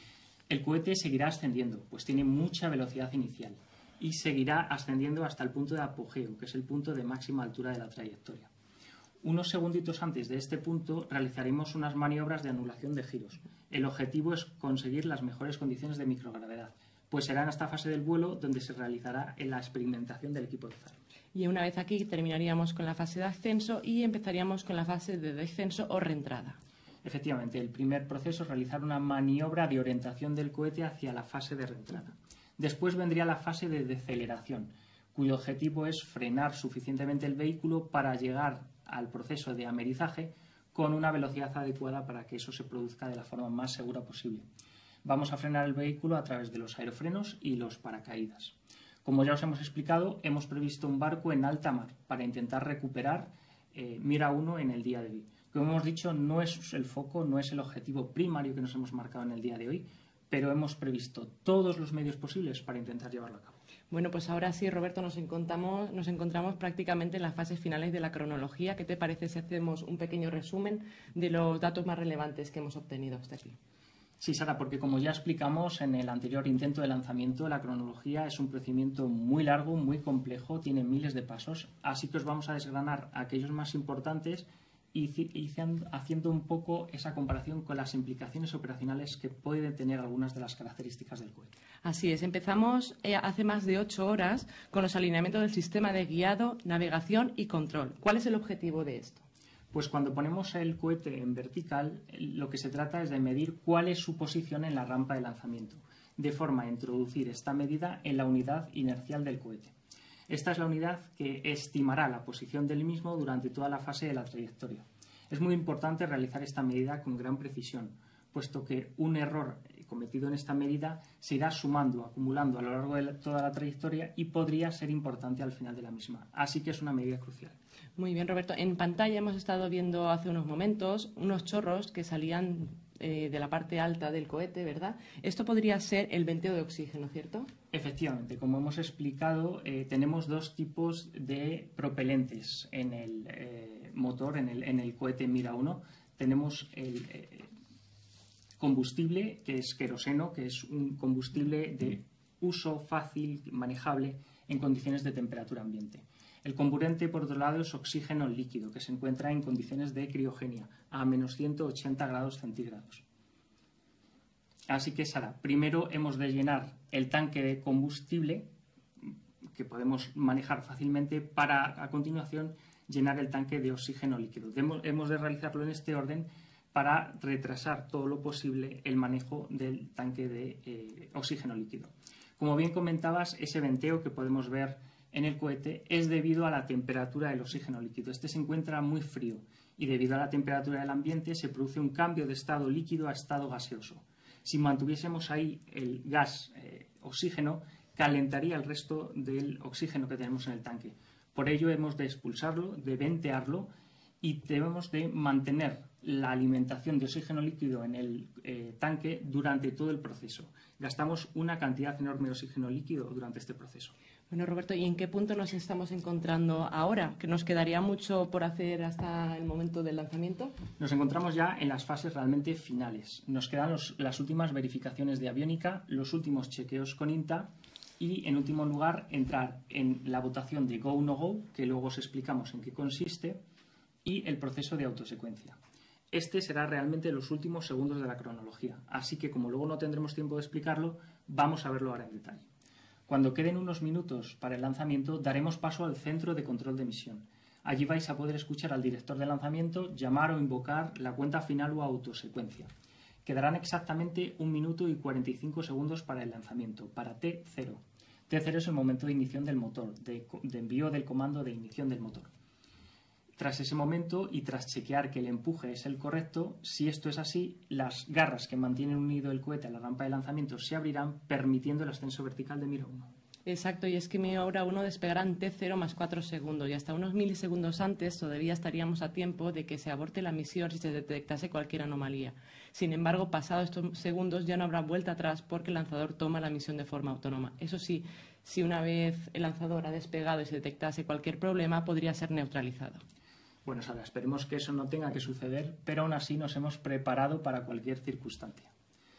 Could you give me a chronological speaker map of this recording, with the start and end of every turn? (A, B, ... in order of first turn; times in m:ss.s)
0:00.5-0:08.5 A
0:09.2-0:21.0 A
0:21.3-0:26.6 B
0:27.0-0:44.5 A
0:45.0-1:03.6 A
1:03.9-1:13.6 B
1:14.2-1:31.5 A
1:31.8-1:39.2 B
1:39.7-1:49.7 A
1:50.3-2:07.6 A
2:08.0-2:17.5 B
2:17.7-2:27.5 A
2:28.6-2:43.0 A
2:44.7-2:48.5 A
2:49.0-3:23.7 A
3:24.2-3:33.9 A
3:34.3-3:40.6 B
3:40.8-3:53.4 A
3:54.0-3:55.6 A
3:56.1-4:02.5 A
4:03.1-4:12.7 A
4:13.2-4:22.3 A
4:23.4-4:33.1 A
4:33.5-4:53.0 B
4:53.6-4:58.7 A